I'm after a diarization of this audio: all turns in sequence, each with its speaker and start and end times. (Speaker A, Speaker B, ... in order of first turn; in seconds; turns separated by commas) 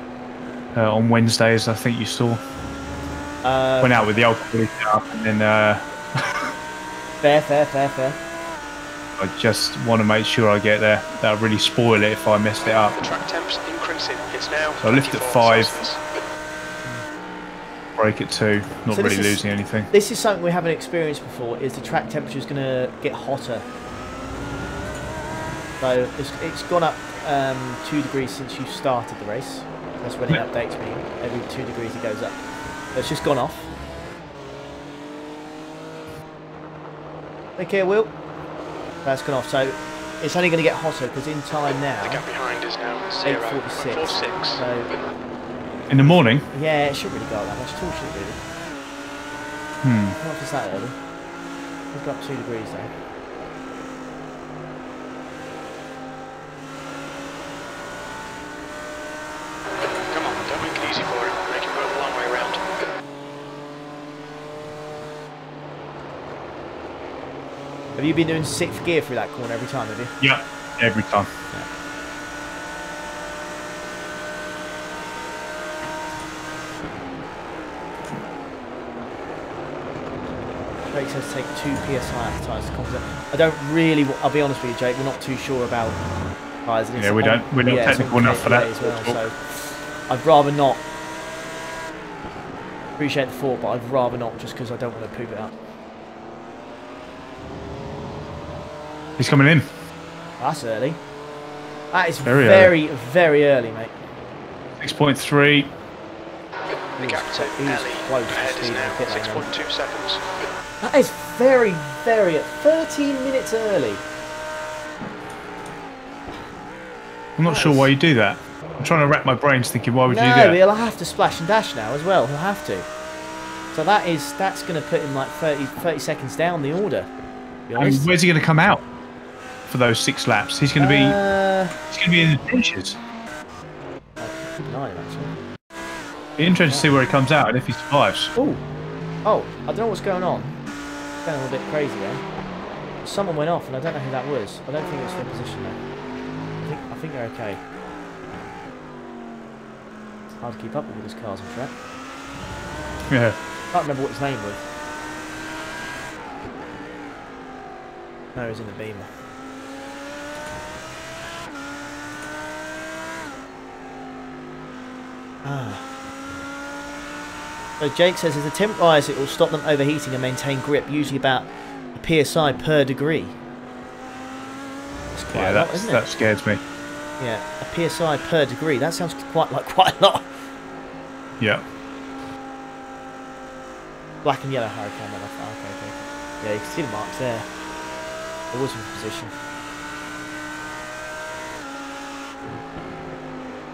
Speaker A: 0.7-2.4, Speaker B: 3.4-4.2, Speaker A: 3.8-6.5, Speaker B: 7.2-8.2, Speaker A: 9.2-12.9, Speaker C: 13.0-16.0, Speaker A: 14.8-15.8, Speaker A: 18.0-19.9, Speaker B: 18.9-23.7, Speaker B: 25.8-32.4, Speaker B: 32.9-33.7, Speaker B: 37.6-38.1, Speaker B: 39.0-42.2, Speaker C: 42.0-44.6, Speaker B: 43.2-44.9, Speaker A: 45.9-46.5, Speaker B: 46.5-48.4, Speaker A: 49.8-50.2, Speaker B: 50.2-51.0, Speaker B: 51.9-52.9, Speaker C: 60.1-62.6, Speaker B: 68.0-70.1, Speaker A: 70.2-71.3, Speaker B: 80.9-86.0, Speaker B: 86.6-90.8, Speaker A: 87.0-89.2, Speaker B: 93.0-95.5, Speaker A: 99.2-99.7, Speaker B: 100.4-101.0, Speaker B: 101.9-103.9, Speaker A: 102.2-102.7, Speaker A: 104.8-105.7, Speaker C: 107.0-110.2, Speaker B: 107.0-109.5, Speaker B: 110.8-114.0, Speaker A: 117.4-120.6, Speaker B: 117.5-117.9, Speaker B: 120.1-122.9, Speaker B: 123.7-127.1, Speaker B: 127.7-128.2, Speaker A: 127.8-128.8, Speaker A: 129.7-131.2, Speaker B: 130.8-131.8, Speaker A: 131.9-133.0, Speaker B: 134.2-135.3, Speaker A: 136.4-138.3, Speaker B: 138.3-138.6, Speaker B: 139.2-140.6, Speaker B: 141.2-142.2, Speaker B: 143.0-145.8, Speaker B: 146.6-147.6, Speaker B: 150.4-151.7, Speaker A: 153.1-153.4, Speaker B: 153.7-154.6, Speaker B: 158.3-159.1, Speaker B: 165.4-165.8, Speaker B: 167.8-173.4, Speaker B: 175.2-176.1, Speaker A: 175.3-176.6, Speaker B: 177.2-180.3, Speaker B: 184.2-187.5, Speaker B: 188.5-189.3